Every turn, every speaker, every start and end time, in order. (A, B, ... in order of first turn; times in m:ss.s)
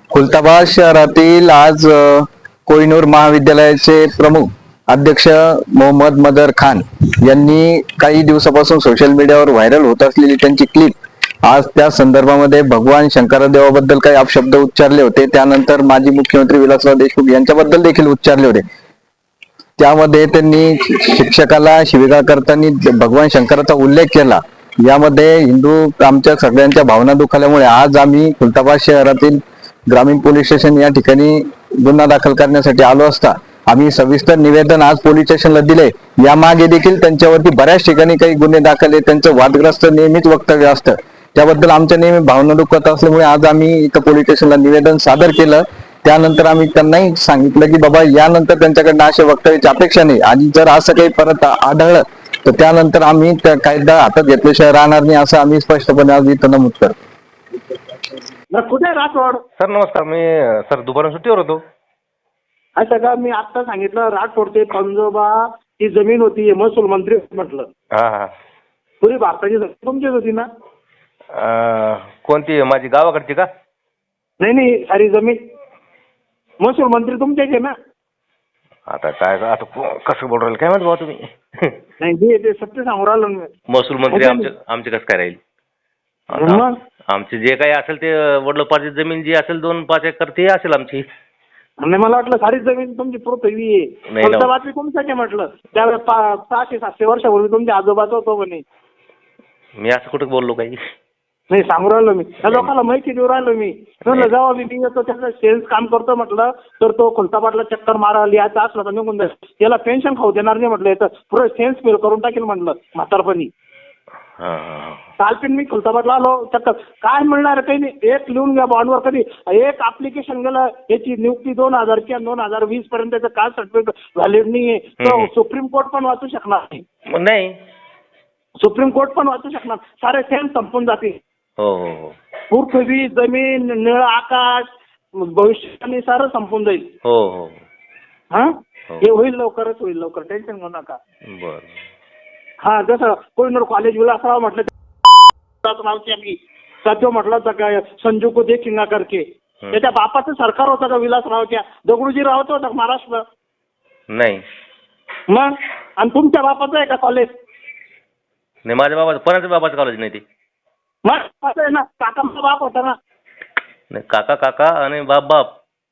0:00.1-0:18.6 A
0:19.8-0:57.0 A
0:58.5-0:59.4 B
0:59.6-1:01.6 C
1:02.8-1:07.7 B
1:08.0-1:08.3 C
1:09.0-1:10.5 B
1:11.3-1:13.5 C
1:14.4-1:15.4 B
1:16.6-1:17.7 B
1:18.9-1:21.8 C
1:22.0-1:23.5 B
1:23.7-1:25.4 C
1:24.1-1:24.4 B
1:26.3-1:31.1 C
1:26.4-1:26.7 B
1:31.8-1:38.6 B
1:34.1-1:34.5 C
1:39.8-1:40.8 C
1:41.5-1:53.5 B
1:42.4-1:42.7 C
1:44.1-1:44.3 C
1:54.4-1:55.0 C
1:55.2-2:06.8 B
2:05.0-2:05.3 C
2:07.1-2:07.5 C
2:08.6-2:11.2 B
2:11.6-2:12.1 C
2:12.5-2:16.9 B
2:17.0-2:17.6 C
2:18.3-2:21.0 B
2:21.3-2:21.7 C
2:22.6-2:33.2 B
2:34.1-2:34.4 C
2:35.3-2:37.3 B
2:38.6-2:40.2 C
2:41.0-2:43.0 B
2:43.9-2:45.5 C